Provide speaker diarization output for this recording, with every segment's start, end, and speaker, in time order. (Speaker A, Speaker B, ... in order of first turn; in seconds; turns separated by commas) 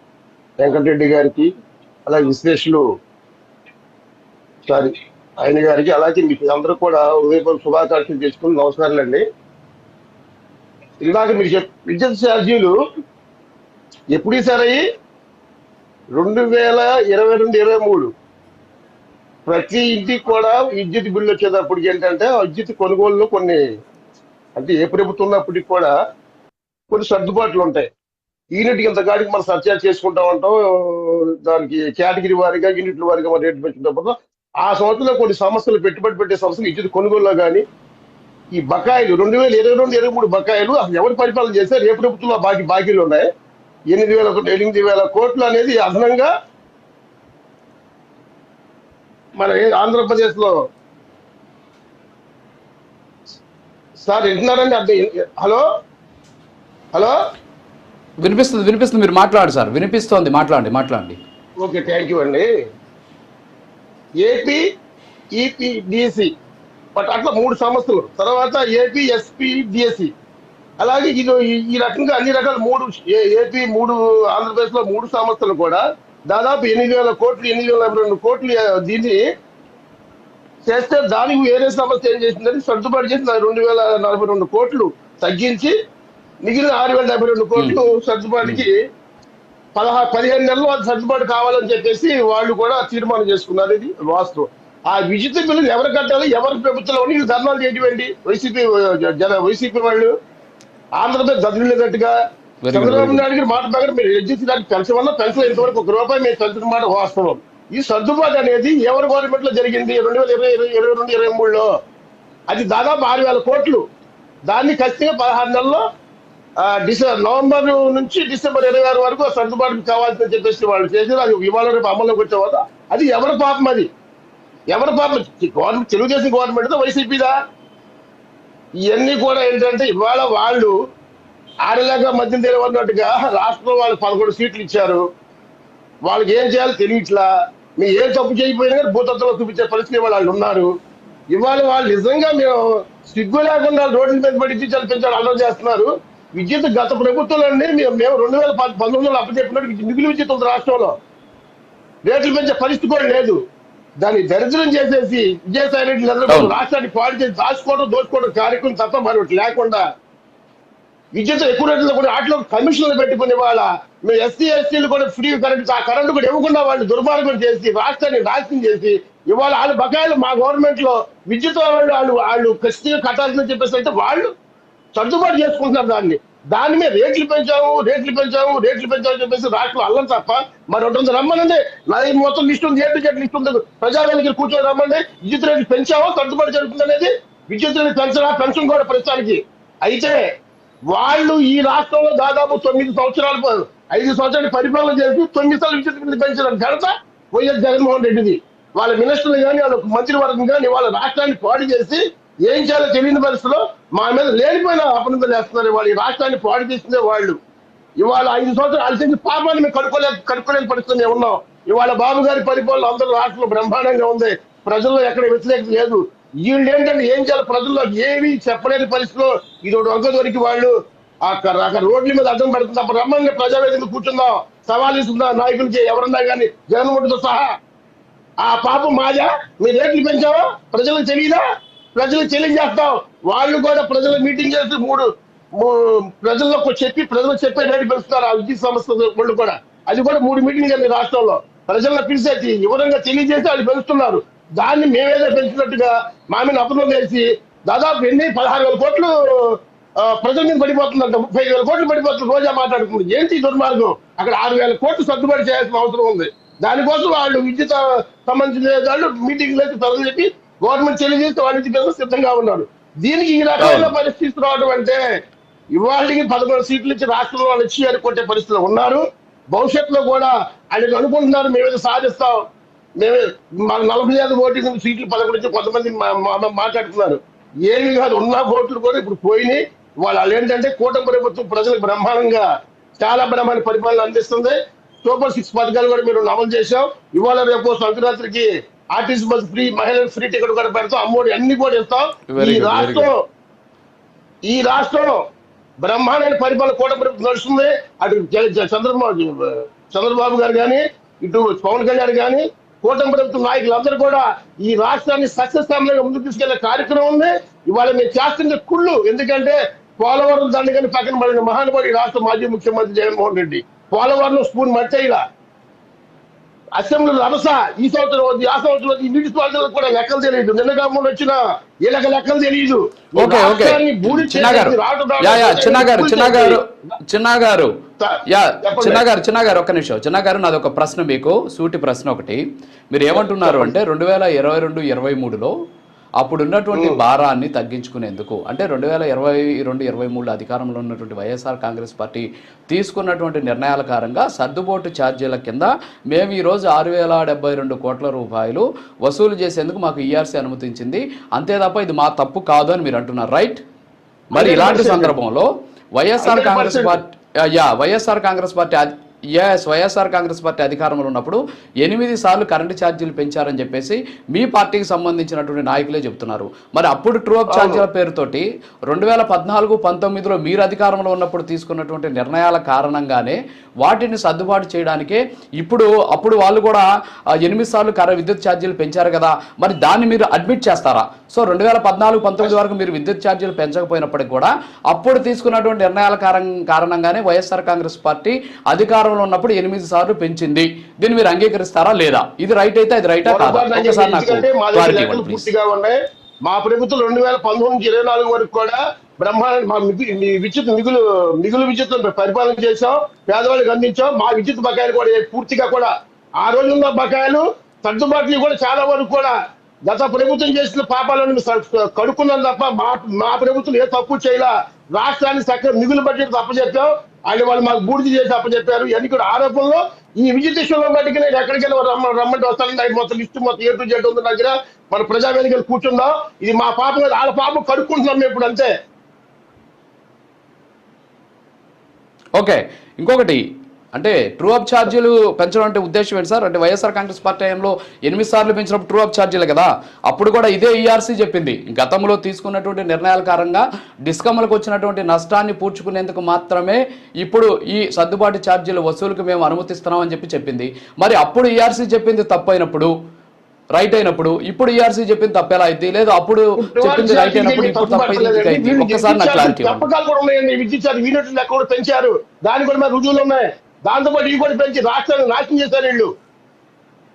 Speaker A: 0.6-1.5, Speaker A: 2.1-2.9, Speaker A: 4.7-9.2, Speaker A: 11.0-12.8, Speaker A: 14.1-14.8, Speaker A: 16.2-18.1, Speaker A: 19.5-23.6, Speaker A: 24.6-25.9, Speaker A: 26.9-27.9, Speaker A: 28.6-37.6, Speaker A: 38.5-43.3, Speaker A: 43.9-46.3, Speaker A: 49.4-50.5, Speaker A: 54.0-55.6, Speaker B: 58.2-61.2, Speaker A: 61.6-62.5, Speaker A: 64.2-64.6, Speaker A: 65.4-66.3, Speaker A: 67.0-70.1, Speaker A: 70.8-79.2, Speaker A: 80.7-85.7, Speaker A: 86.4-88.7, Speaker A: 89.8-100.1, Speaker A: 101.0-102.1, Speaker B: 102.6-103.2, Speaker A: 102.7-111.7, Speaker A: 112.5-113.8, Speaker A: 114.5-115.8, Speaker A: 116.6-123.9, Speaker A: 124.7-127.3, Speaker A: 128.9-130.7, Speaker A: 131.7-135.0, Speaker A: 136.1-137.3, Speaker A: 137.8-140.7, Speaker A: 141.3-150.9, Speaker A: 152.1-153.4, Speaker A: 154.0-159.8, Speaker B: 156.3-156.5, Speaker A: 161.1-174.3, Speaker A: 174.9-190.3, Speaker A: 190.9-207.4, Speaker A: 208.0-220.7, Speaker A: 221.2-227.5, Speaker A: 228.4-231.4, Speaker A: 232.0-235.1, Speaker A: 235.6-265.0, Speaker B: 263.6-263.9, Speaker A: 265.8-272.4, Speaker A: 273.0-282.5, Speaker A: 283.0-293.2, Speaker B: 292.3-293.1, Speaker A: 294.5-295.2, Speaker A: 295.8-315.2, Speaker A: 316.8-326.6, Speaker B: 323.2-327.7, Speaker A: 328.0-329.0, Speaker B: 328.3-335.5, Speaker A: 333.3-333.7, Speaker B: 336.2-353.6, Speaker A: 336.7-337.0, Speaker B: 354.3-376.9, Speaker A: 354.4-355.1, Speaker A: 356.2-357.0, Speaker A: 367.5-367.9, Speaker B: 377.4-395.5, Speaker A: 393.3-409.4, Speaker A: 409.9-428.7, Speaker B: 432.4-433.4, Speaker B: 433.9-452.9, Speaker B: 453.8-459.9, Speaker A: 456.6-466.1